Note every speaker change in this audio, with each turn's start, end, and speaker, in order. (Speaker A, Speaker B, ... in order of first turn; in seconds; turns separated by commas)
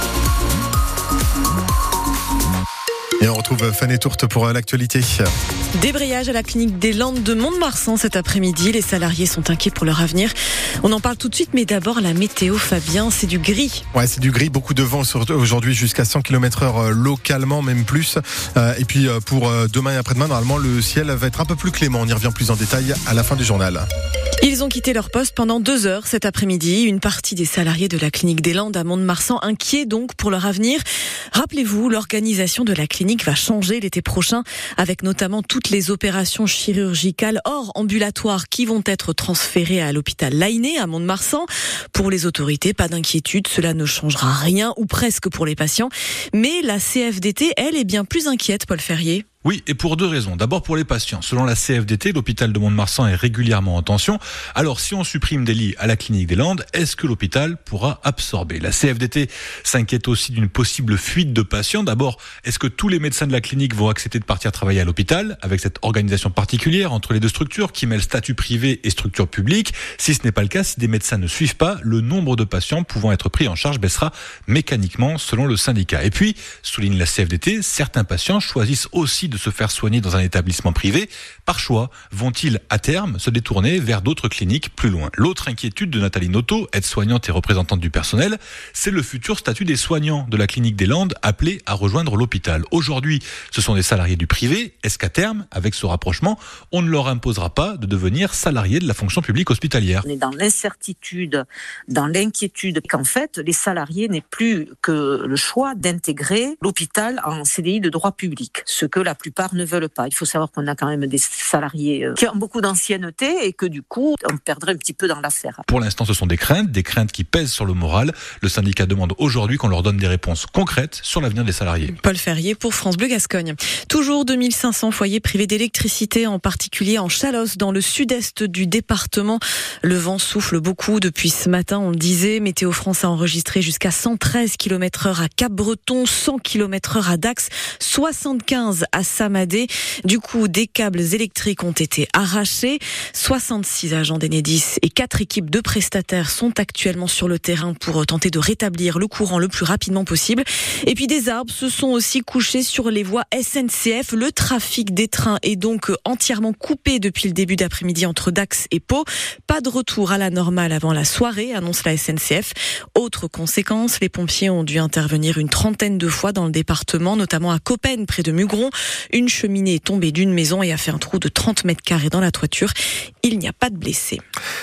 Speaker A: 3.2-5.2, Speaker B: 5.7-13.8, Speaker A: 13.9-23.8, Speaker B: 24.4-30.8, Speaker B: 31.3-49.2, Speaker C: 49.4-100.0, Speaker D: 100.0-115.6, Speaker C: 115.7-122.0, Speaker B: 121.9-174.2